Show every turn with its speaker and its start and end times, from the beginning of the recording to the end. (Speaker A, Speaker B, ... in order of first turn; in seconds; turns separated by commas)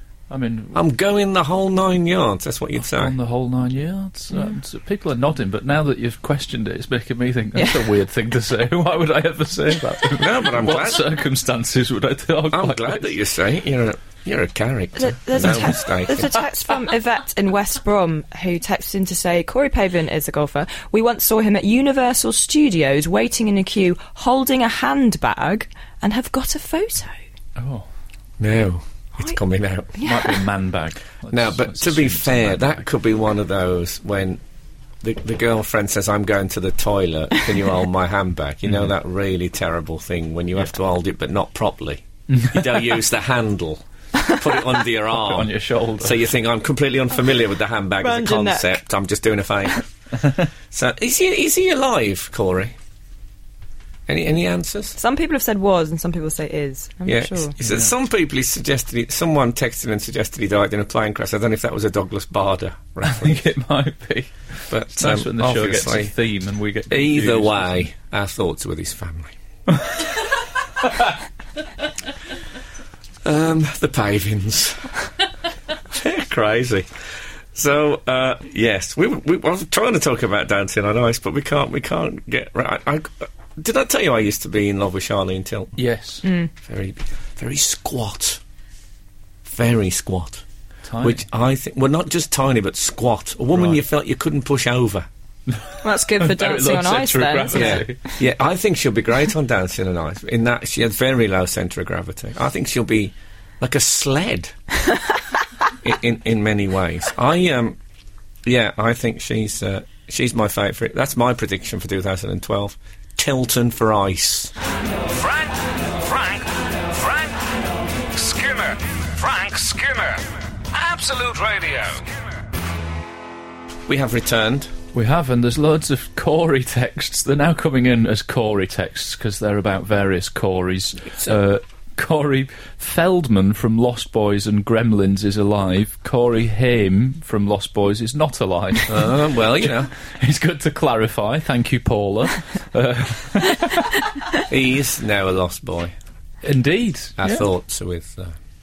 Speaker A: 0.3-0.8, Speaker B: 0.7-3.1, Speaker A: 2.8-13.2, Speaker C: 4.3-4.6, Speaker C: 7.5-7.9, Speaker B: 10.2-11.1, Speaker B: 12.5-16.4, Speaker C: 15.0-27.1, Speaker A: 27.6-27.9, Speaker B: 28.4-29.9, Speaker C: 29.9-30.4, Speaker A: 30.0-32.8, Speaker B: 31.3-34.4, Speaker B: 35.0-49.9, Speaker A: 42.3-42.8, Speaker A: 45.1-46.2, Speaker C: 48.0-48.8, Speaker B: 50.7-52.8, Speaker B: 54.1-55.0, Speaker C: 55.0-57.5, Speaker B: 57.1-63.4, Speaker A: 57.6-57.9, Speaker A: 63.0-67.9, Speaker B: 64.7-66.2, Speaker B: 66.9-69.3, Speaker B: 73.2-74.9, Speaker B: 75.9-76.9, Speaker B: 77.5-85.8, Speaker A: 85.8-86.2, Speaker C: 86.2-86.5, Speaker B: 86.6-88.4, Speaker B: 89.5-90.4, Speaker A: 90.8-91.2, Speaker B: 91.0-95.1, Speaker A: 95.5-98.0, Speaker C: 95.8-97.9, Speaker B: 97.5-104.5, Speaker B: 105.8-107.8, Speaker B: 108.5-114.5, Speaker D: 115.1-117.6, Speaker D: 118.1-122.3, Speaker B: 123.9-124.7, Speaker A: 124.9-144.0, Speaker B: 131.1-131.4, Speaker B: 138.9-139.9, Speaker B: 144.4-145.9, Speaker A: 146.4-147.5, Speaker B: 147.2-148.3